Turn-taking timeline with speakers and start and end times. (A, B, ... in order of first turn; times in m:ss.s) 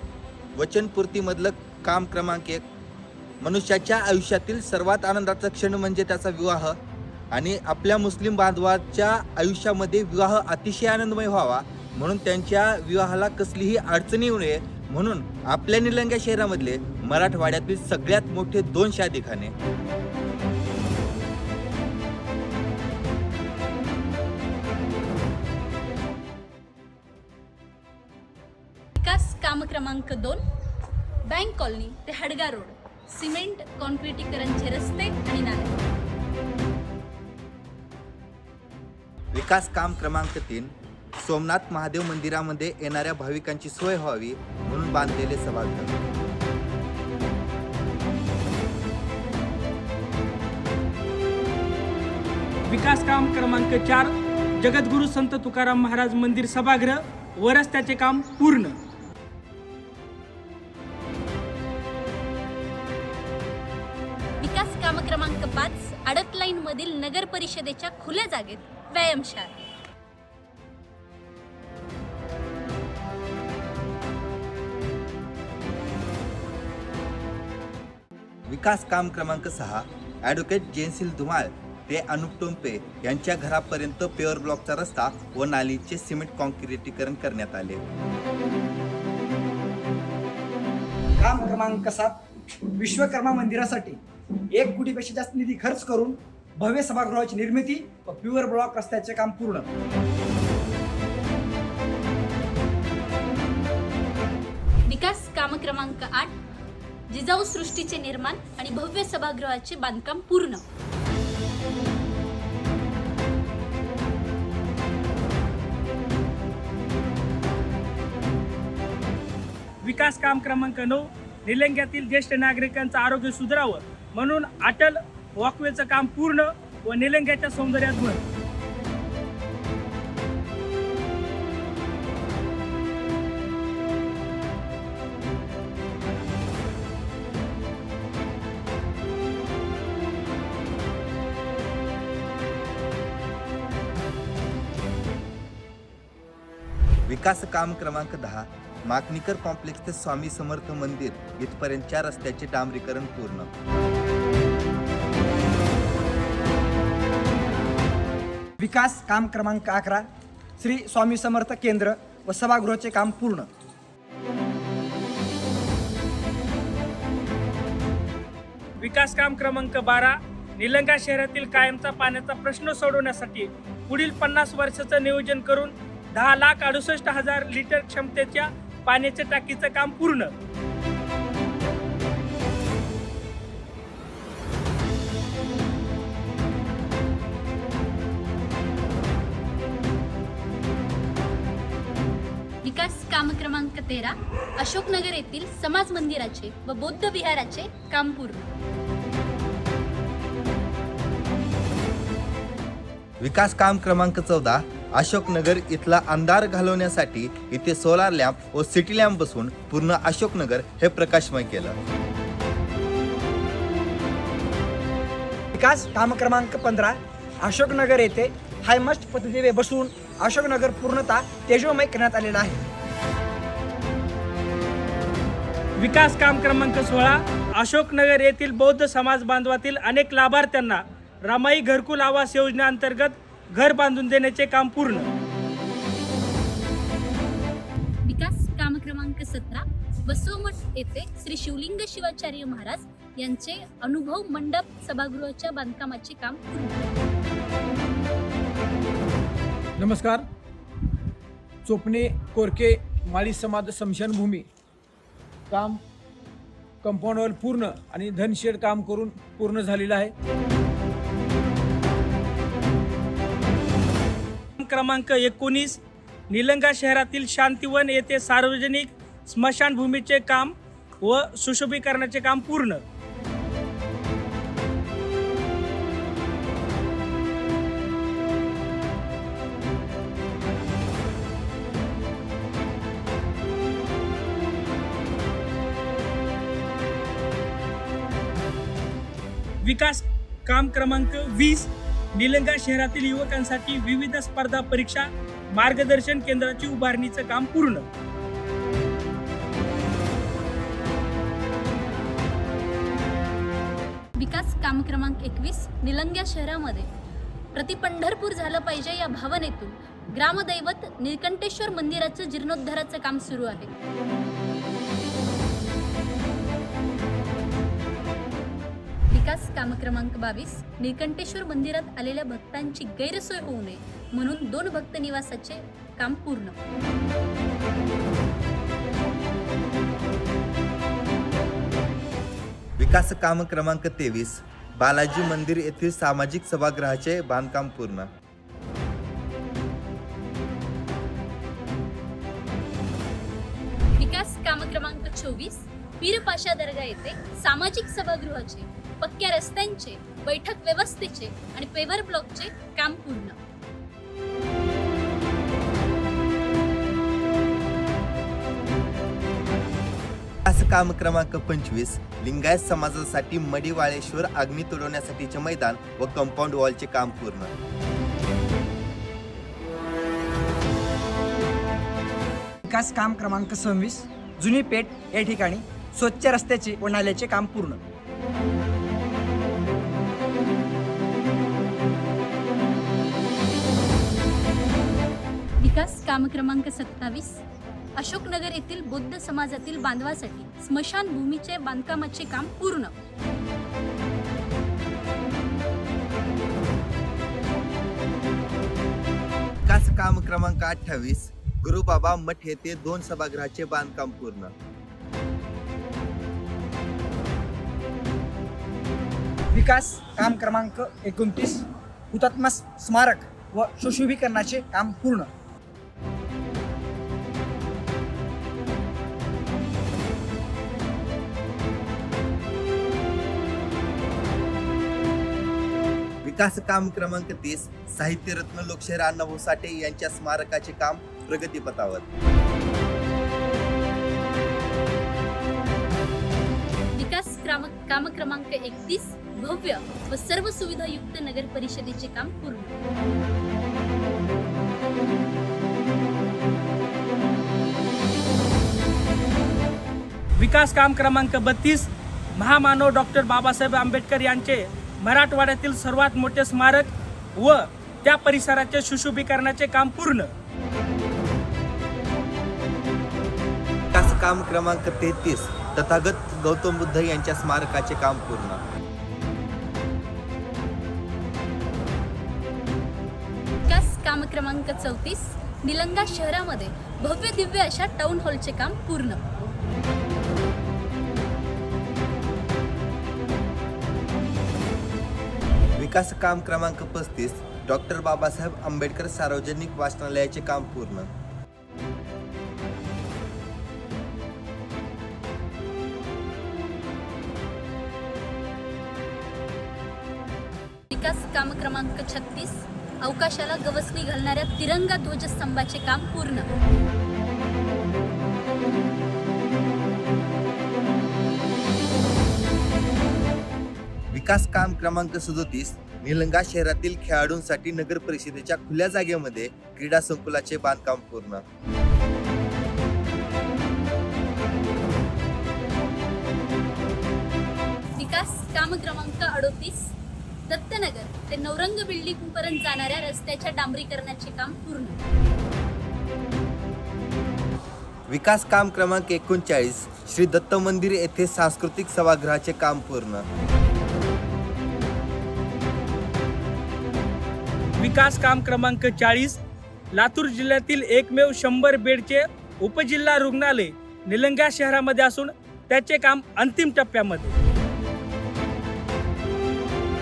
0:00.5-0:02.6 A
0:03.4-0:06.8 A
0:07.3-0:19.5 A
0:29.0-0:30.4 B
0:31.3-0:35.7 B
0:39.3-0:45.9 A
0:52.6-0:58.8 C
1:04.4-1:09.5 B
1:18.5-1:27.8 A
1:31.2-1:32.2 D
1:32.7-1:34.0 D
1:34.5-1:39.7 D
1:44.9-1:46.3 B
1:47.1-1:50.6 B
1:59.8-2:08.2 C
2:27.1-2:33.5 A
2:38.6-2:40.0 D
2:40.6-2:43.5 D
2:48.8-3:00.3 C
3:12.6-3:18.5 B
3:23.2-3:31.8 A
3:35.5-3:42.6 D
3:45.8-3:55.1 C
3:58.0-4:06.8 B
4:09.8-4:10.3 E
4:11.6-4:14.5 E
4:15.5-4:15.8 E
4:16.8-4:20.1 E
4:24.6-4:32.8 C
4:49.6-4:57.8 C
5:04.2-5:06.9 B
5:07.5-5:13.7 B
5:19.1-5:26.5 B
5:32.8-5:38.1 A
5:44.0-5:53.4 B
6:00.4-6:07.5 A
6:12.6-6:17.8 D
6:25.6-6:27.4 B
6:28.0-6:32.9 B
6:39.6-6:44.5 A
6:49.5-6:55.3 D
7:06.2-7:12.1 A
7:16.9-7:22.7 B
7:30.4-7:40.3 C
7:43.9-7:48.6 A
7:53.7-7:59.2 B
8:05.7-8:11.1 A
8:20.9-8:26.5 B
8:34.1-8:41.4 A
8:48.0-8:49.9 B
8:50.5-8:55.0 B
8:58.1-9:03.2 A
9:07.8-9:09.4 C
9:09.9-9:17.4 C